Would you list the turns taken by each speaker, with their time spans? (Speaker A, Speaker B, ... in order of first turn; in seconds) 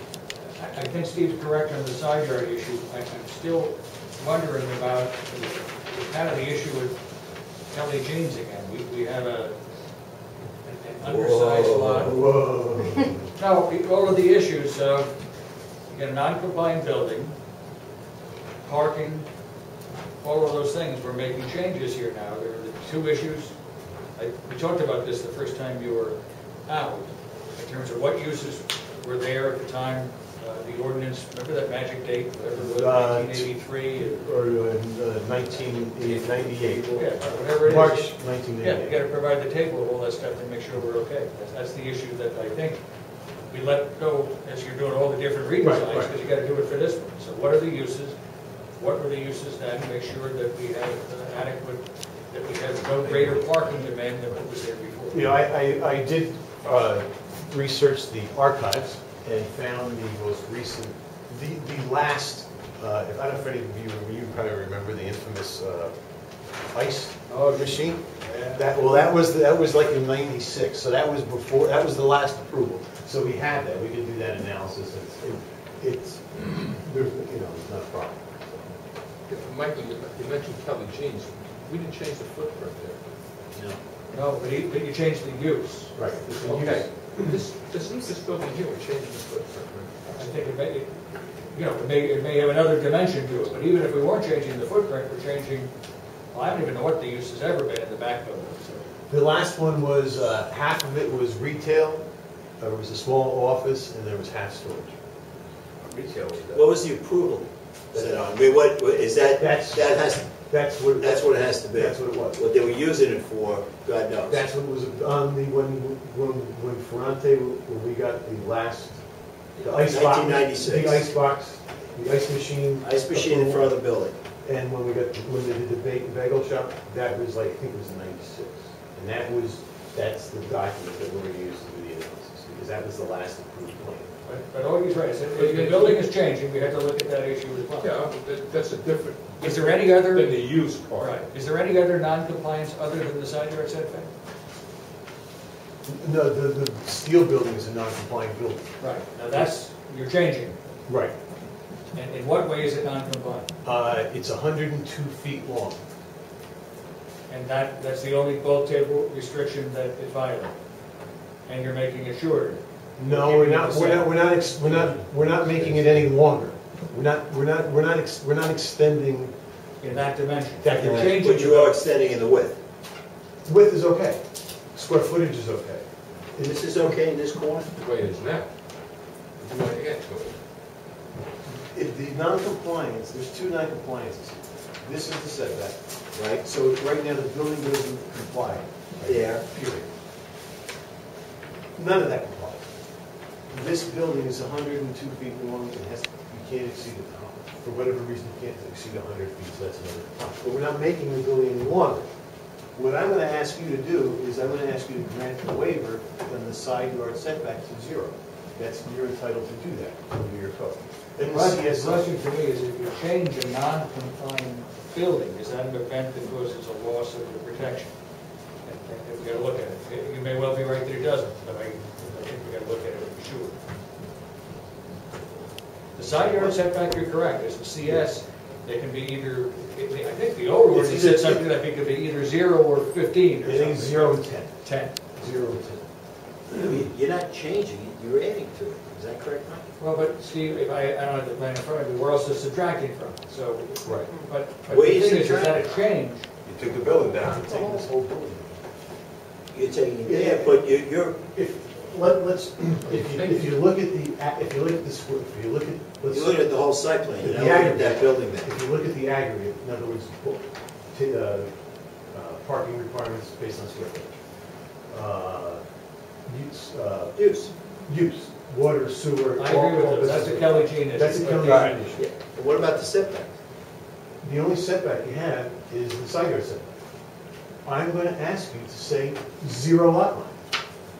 Speaker A: 0.5-7.0, 7.7-9.6, 10.6-12.2, 13.3-15.1, 15.9-17.4, 18.6-19.3, 20.2-23.5, 24.1-34.4, 36.9-42.8, 43.5-48.1, 48.8-55.3, 67.3-68.8, 84.1-86.0, 90.1-91.0, 91.5-95.7, 96.3-98.9, 134.2-138.0, 139.4-144.1, 148.8-150.6, 151.9-153.5, 157.3-160.6, 161.4-164.2, 169.8-171.8, 211.2-217.9, 218.6-223.6, 225.9-234.9, 239.8-246.3, 247.5-247.8, 269.4-271.8
Speaker B: 11.0-12.1, 106.5-110.3, 111.0-114.4, 119.5-121.1, 122.8-124.1, 170.7-172.6, 176.4-177.7, 186.2-186.4, 189.1-189.4, 236.5-239.7, 244.7-245.6, 249.5-251.2, 256.1-258.5, 267.1-267.5, 271.9-273.3
Speaker C: 12.0-13.3, 32.5-39.0, 45.6-46.1, 53.0-53.4, 55.1-65.9, 66.7-78.7, 85.9-87.3, 99.1-102.0, 102.6-105.0, 105.9-106.6, 107.9-108.3, 109.3-112.4, 114.3-119.0, 119.6-123.7, 124.4-134.1, 145.8-148.7, 150.9-151.1, 153.6-155.8, 163.0-169.3, 170.6-171.1, 173.4-174.2, 174.7-175.8, 181.6-189.9, 191.8-192.6, 193.5-202.1, 202.8-212.1, 226.1-226.5, 230.7-231.5, 233.4-234.6, 235.1-235.8, 243.8-244.1, 246.4-248.6, 250.0-256.4, 257.2-261.5, 262.1-264.1, 264.9-265.6, 266.3-267.1, 267.9-272.1, 274.2-276.7, 277.6-280.4
Speaker D: 79.3-83.0, 86.3-89.9, 135.3-136.1, 137.8-141.2, 164.8-166.0, 177.7-178.5, 179.4-180.4, 252.8-253.6